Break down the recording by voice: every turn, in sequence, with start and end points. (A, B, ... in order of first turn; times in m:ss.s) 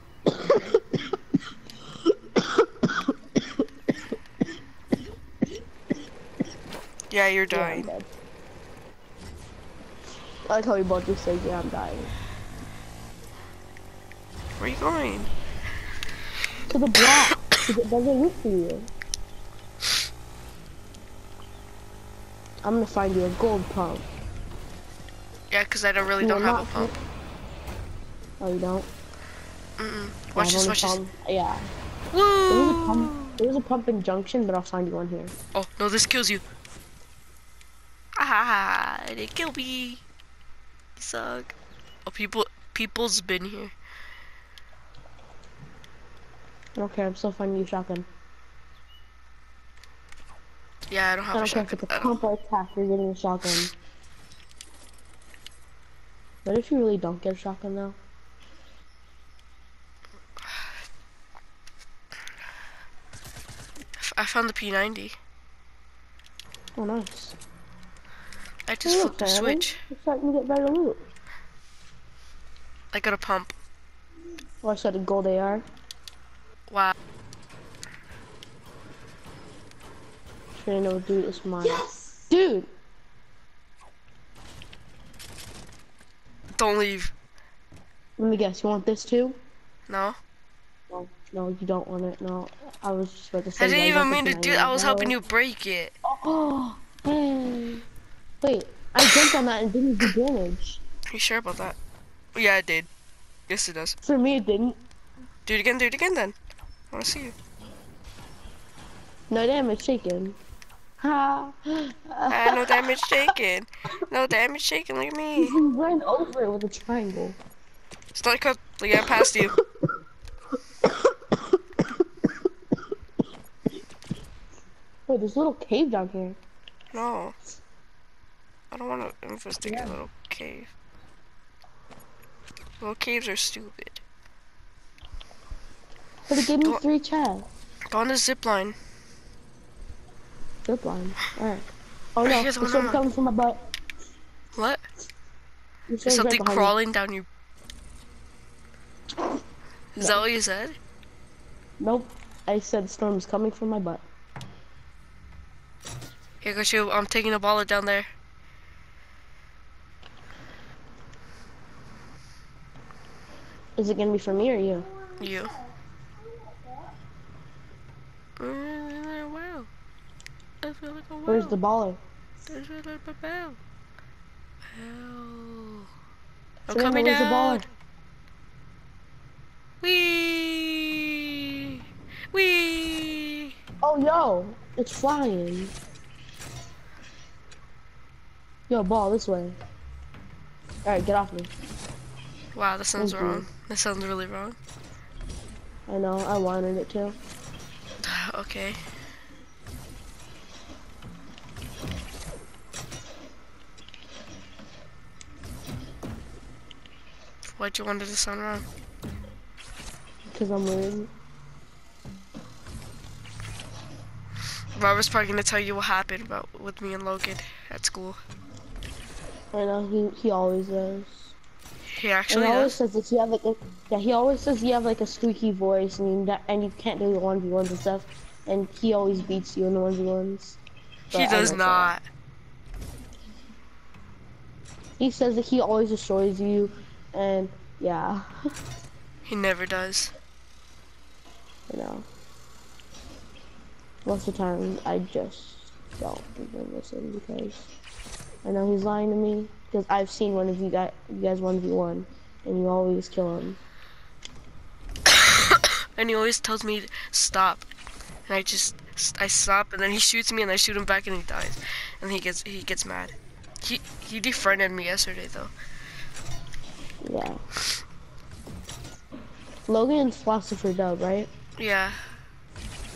0:00.4-0:00.7 A
0:07.1-0:07.9 B
0:07.5-0:08.1 A
0:10.5-0:12.1 A
0:14.6-0:15.3 B
0:16.7-0:18.9 A
0:22.6-0:24.1 A
0:25.5-0:26.9 B
0:26.2-0:27.0 A
0:28.4-0:28.9 A
0:29.8-0:31.0 B
0:30.4-0:31.7 A
0:32.1-0:33.4 B
0:32.5-0:35.3 A
0:35.5-0:36.4 B
0:38.2-0:40.0 B
0:41.0-0:41.6 B
0:42.1-0:43.8 B
0:46.8-0:48.1 A
0:50.9-0:52.1 B
0:51.3-0:53.7 A
0:56.4-0:58.0 A
1:04.0-1:05.2 B
1:06.8-1:07.4 A
1:08.7-1:09.8 B
1:08.8-1:11.0 A
1:12.9-1:13.6 B
1:14.6-1:15.6 A
1:16.7-1:17.0 B
1:20.5-1:22.7 A
1:26.6-1:27.1 B
1:28.2-1:29.4 A
1:29.9-1:30.2 B
1:30.9-1:35.2 A
1:33.6-1:35.9 B
1:36.0-1:37.8 A
1:38.4-1:40.8 A
1:41.1-1:41.8 B
1:42.4-1:42.9 B
1:43.5-1:44.0 B
1:44.0-1:44.8 A
1:45.5-1:46.4 B
1:46.9-1:47.4 B
1:49.3-1:50.4 A
1:51.0-1:53.3 A
1:52.3-1:55.6 B
1:55.4-1:57.4 A
1:58.1-1:59.5 B
2:05.1-2:06.4 A
2:06.9-2:07.4 B
2:08.7-2:10.7 B
2:09.7-2:09.9 A
2:12.8-2:14.0 B
2:16.3-2:17.5 A
2:17.9-2:18.8 B
2:20.7-2:23.7 A
2:22.2-2:23.0 B
2:24.5-2:24.8 B
2:25.9-2:26.7 A
2:26.0-2:27.3 B
2:30.0-2:30.8 B
2:30.0-2:30.3 A
2:31.8-2:34.0 A
2:36.4-2:38.1 B
2:43.8-2:44.9 A
2:45.2-2:45.6 B
2:48.4-2:49.7 B
2:50.6-2:51.6 B
2:51.3-2:52.0 A
2:52.5-2:53.6 B
2:54.7-2:55.9 B
2:56.7-2:57.6 B
2:56.7-2:57.6 A
2:59.8-3:01.8 B
3:02.3-3:03.5 B
3:03.8-3:05.7 A
3:08.7-3:09.6 A
3:10.8-3:11.5 A
3:12.6-3:14.6 B
3:13.0-3:13.5 A
3:15.9-3:17.2 A
3:18.0-3:18.8 B
3:27.5-3:28.7 B
3:30.3-3:31.1 A
3:34.8-3:38.2 B
3:39.5-3:41.4 A
3:41.9-3:42.8 B
3:42.3-3:50.6 A
3:51.1-3:51.9 A
3:51.1-3:52.0 B
3:55.0-3:58.3 A
3:59.3-4:00.1 B
4:01.7-4:02.1 A
4:04.0-4:07.7 A
4:08.4-4:13.6 A
4:15.1-4:17.7 B
4:18.3-4:25.5 B
4:27.0-4:27.4 A
4:29.7-4:31.3 A
4:31.6-4:32.0 B